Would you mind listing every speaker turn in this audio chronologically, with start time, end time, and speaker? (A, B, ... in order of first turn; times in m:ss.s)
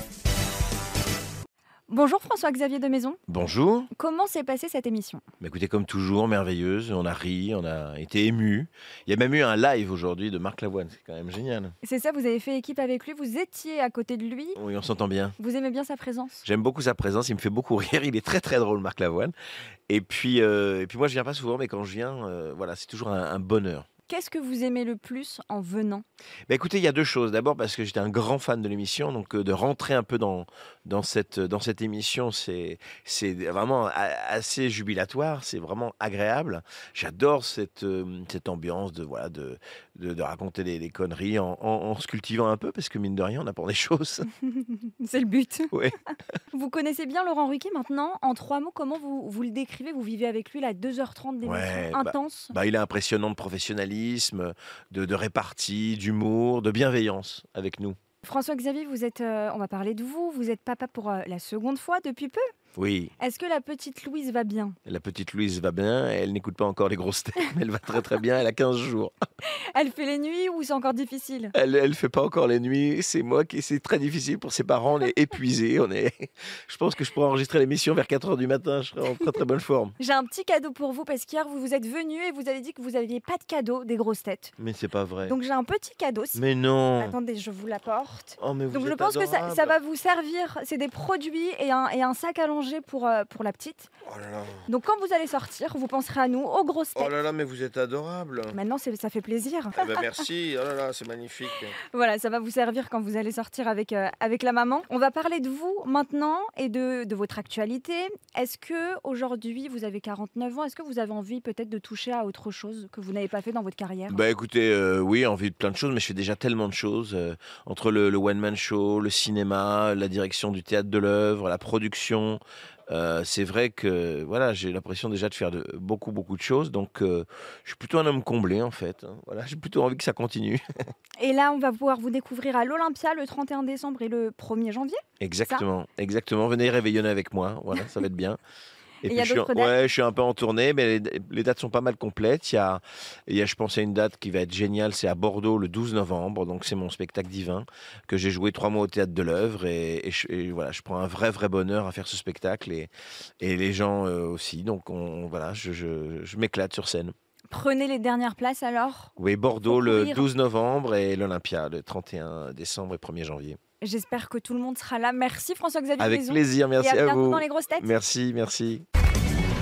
0:01.9-0:03.2 A
0:03.3-0:03.9 B
0:04.0-0:05.2 A
0:05.4-0:11.7 B
0:11.8-0:14.6 A
0:14.6-0:15.4 B
0:15.4-0:16.4 A
0:16.4-0:19.3 B
0:19.9-0:23.9 B
0:24.1-0:26.0 A
0:26.5-0:44.3 B
0:44.5-0:45.7 A
0:46.5-0:52.5 A
0:51.4-0:58.0 B
0:58.2-1:02.4 A
1:02.8-1:03.1 B
1:03.2-1:04.8 A
1:04.9-1:09.1 B
1:09.5-1:11.5 A
1:11.5-1:20.0 B
1:20.0-1:24.6 A
1:24.6-1:25.4 B
1:25.2-1:26.4 A
1:26.4-1:27.2 B
1:27.0-1:33.9 A
1:28.4-1:29.8 B
1:34.0-1:34.7 B
1:34.7-1:37.1 A
1:37.0-1:38.6 B
1:38.5-1:40.2 A
1:39.8-1:41.8 B
1:41.9-1:54.2 A
1:54.1-2:10.6 B
2:11.2-2:15.7 A
2:15.2-2:18.4 B
2:19.0-2:37.1 B
2:19.0-2:19.7 A
2:37.5-2:39.1 A
2:39.2-2:43.6 B
2:39.7-2:40.3 A
2:43.8-2:47.9 A
2:46.0-2:48.8 B